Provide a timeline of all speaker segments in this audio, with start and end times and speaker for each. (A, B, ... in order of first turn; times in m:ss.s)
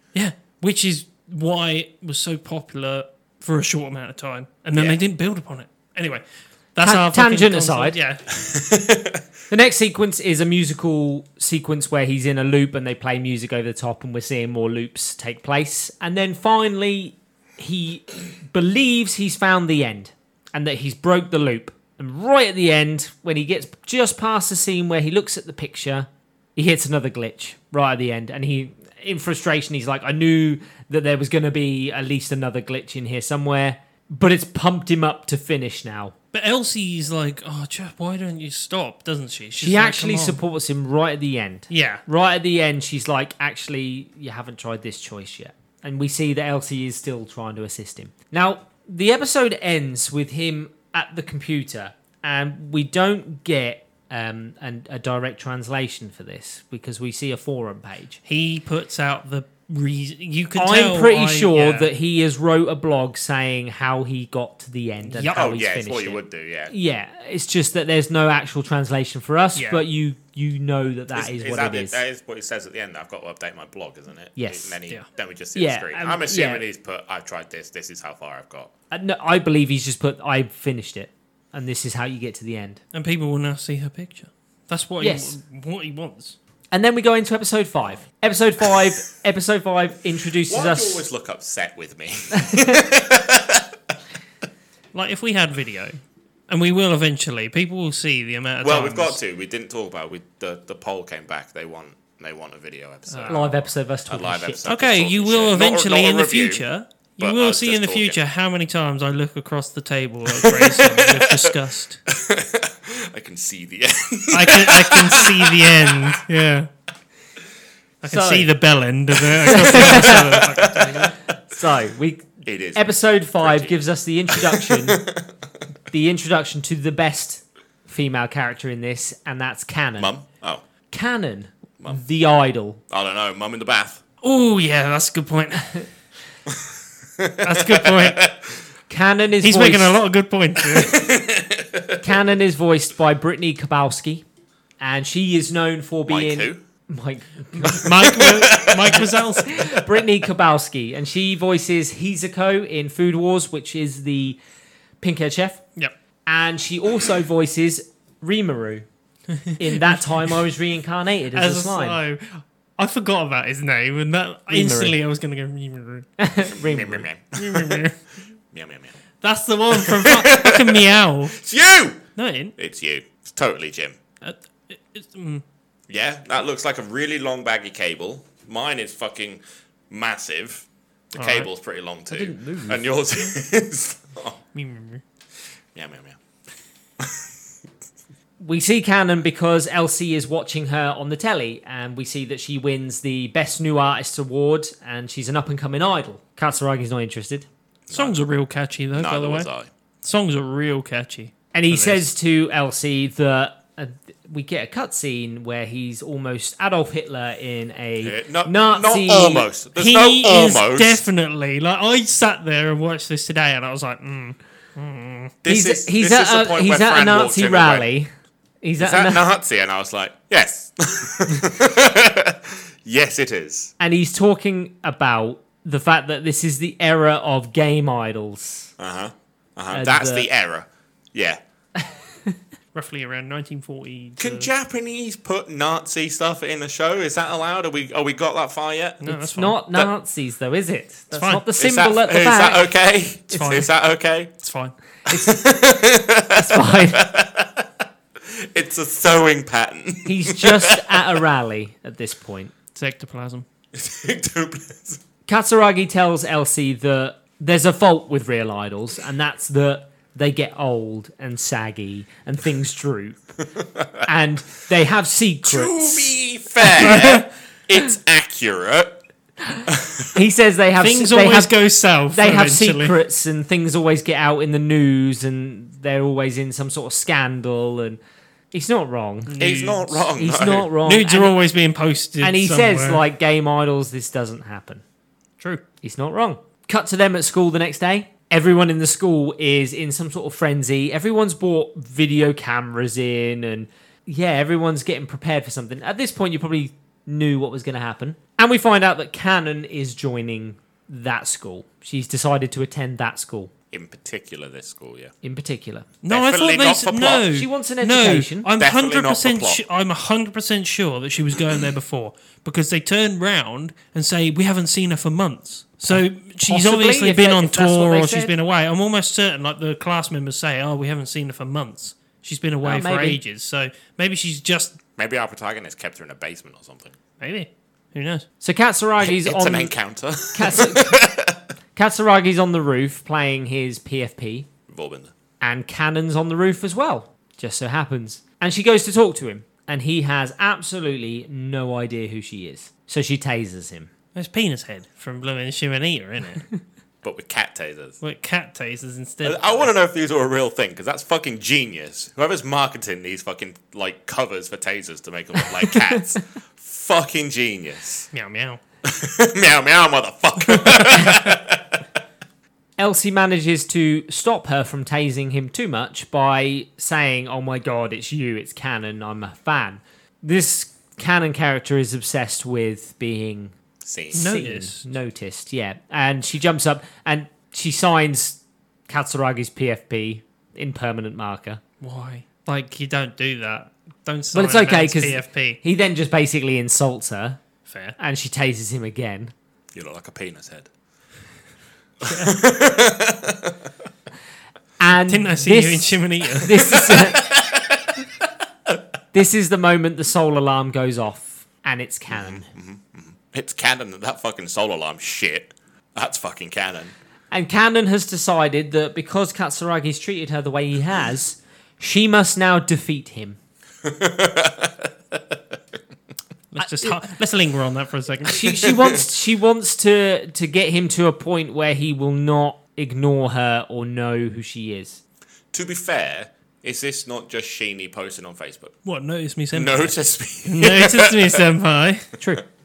0:00.1-0:08.2 A
0:04.7-0:05.0 B
0:06.8-0:08.0 C
0:08.3-0:09.2 B
0:09.5-0:36.1 C
0:36.3-0:40.4 A
0:39.6-0:58.2 C
0:41.7-0:42.0 A
0:58.2-1:01.9 A
1:00.6-1:12.0 C
1:05.1-1:05.4 A
1:05.3-1:06.7 B
1:09.6-1:09.8 A
1:11.1-1:18.7 B
1:14.4-1:14.8 C
1:15.5-1:16.6 C
1:18.9-1:22.8 C
1:22.9-1:26.4 A
1:25.0-1:25.3 C
1:26.7-1:31.0 C
1:30.5-1:33.9 B
1:32.3-1:32.8 C
1:34.9-1:39.2 A
1:38.6-1:46.6 B
1:43.1-1:43.4 A
1:43.3-1:44.7 C
1:44.6-1:52.0 A
1:47.2-1:48.2 B
1:50.3-1:51.6 B
1:52.1-1:56.2 B
1:54.3-1:56.7 A
1:58.0-2:01.1 A
1:58.0-1:58.5 C
1:59.2-2:01.3 B
1:59.5-2:00.6 C
2:01.5-2:05.0 C
2:02.4-2:02.9 B
2:03.4-2:05.3 B
2:05.9-2:10.1 C
2:10.0-2:10.6 B
2:10.9-2:12.8 C
2:12.9-2:14.0 B
2:14.2-2:15.9 A
2:17.2-2:18.6 B
2:17.4-2:18.2 A
2:18.9-2:20.0 C
2:19.4-2:21.0 A
2:20.6-2:22.1 B
2:22.0-2:24.2 C
2:24.8-2:27.9 C
2:26.1-2:26.6 B
2:27.6-2:29.8 B
2:27.7-2:29.6 A
2:29.4-2:34.4 C
2:35.0-2:35.6 C
2:36.2-2:38.8 C
2:39.5-2:40.3 A
2:39.6-2:42.0 C
2:41.3-2:46.1 A
2:44.5-2:45.0 C
2:46.2-2:47.0 C
2:46.5-2:47.8 B
2:47.4-2:48.0 A
2:48.5-2:49.0 B
2:49.2-2:51.4 A
2:49.7-2:52.0 B
2:52.2-2:52.5 A
2:52.6-2:54.0 B
2:54.2-2:55.4 A
2:55.9-3:04.4 B
3:01.1-3:01.5 A
3:02.1-3:02.9 C
3:04.5-3:05.0 A
3:05.7-3:06.2 B
3:07.0-3:07.3 B
3:08.4-3:17.5 C
3:17.9-3:18.2 B
3:17.9-3:19.5 A
3:18.9-3:19.7 B
3:20.0-3:22.1 A
3:21.5-3:29.5 C
3:28.0-3:31.0 B
3:29.8-3:35.3 A
3:35.4-3:37.9 B
3:35.4-3:38.1 C
3:38.6-3:39.2 C
3:38.8-3:43.7 B
3:43.8-3:48.7 C
3:48.8-3:51.4 B
3:49.7-3:50.3 C
3:51.8-3:52.4 C
3:52.7-3:54.5 A
3:54.2-3:59.0 B
3:59.0-3:59.6 A
3:59.1-4:02.7 C
4:01.1-4:01.4 A
4:01.6-4:04.3 B
4:03.3-4:03.7 A
4:04.4-4:04.7 A
4:05.1-4:11.1 B
4:06.3-4:07.0 C
4:10.0-4:12.5 C
4:12.7-4:13.4 A
4:13.7-4:15.0 B
4:15.3-4:23.4 C
4:23.6-4:24.0 B
4:24.0-4:27.0 C
4:25.4-4:29.0 B
4:26.8-4:27.2 A
4:29.7-4:30.2 B
4:30.1-4:31.5 C
4:30.8-4:33.0 A
4:32.1-4:38.0 C
4:38.5-4:39.3 C
4:39.2-4:40.1 A
4:39.4-4:40.7 B
4:40.2-4:41.3 C
4:40.8-4:43.0 A
4:42.2-4:44.8 C
4:45.8-5:03.5 C
5:03.7-5:05.1 B
5:05.2-5:05.9 C
5:06.0-5:24.8 A
5:06.1-5:07.3 B
5:07.2-5:08.5 C
5:08.6-5:09.6 B
5:15.8-5:18.3 C
5:22.6-5:23.2 C
5:25.0-5:27.0 B
5:27.2-5:28.2 A
5:28.4-5:29.7 C
5:29.0-5:31.4 B
5:30.3-5:31.0 C
5:31.7-5:34.5 C
5:34.7-5:35.1 B
5:35.4-5:43.9 C
5:44.1-5:46.5 A
5:47.0-5:48.0 B
5:48.0-5:49.7 A
5:49.2-5:58.1 B
5:58.1-5:58.6 A
5:58.8-6:01.8 B
6:02.8-6:13.5 C
6:13.8-6:14.3 B
6:14.1-6:21.6 C
6:14.1-6:14.9 A
6:21.8-6:25.6 A
6:24.3-6:27.4 C
6:27.7-6:28.0 A
6:28.0-6:29.3 C
6:29.7-6:30.7 B
6:32.0-6:33.6 B
6:34.8-6:37.3 C
6:35.1-6:37.0 A
6:36.7-6:38.2 B
6:39.1-6:42.5 C
6:42.1-6:46.9 B
6:47.3-6:53.4 C
6:53.8-6:55.6 B
6:56.5-6:58.7 A
6:56.6-6:56.9 C
6:58.3-7:05.0 C
7:05.5-7:08.8 B
7:08.8-7:12.1 A
7:09.5-7:11.4 B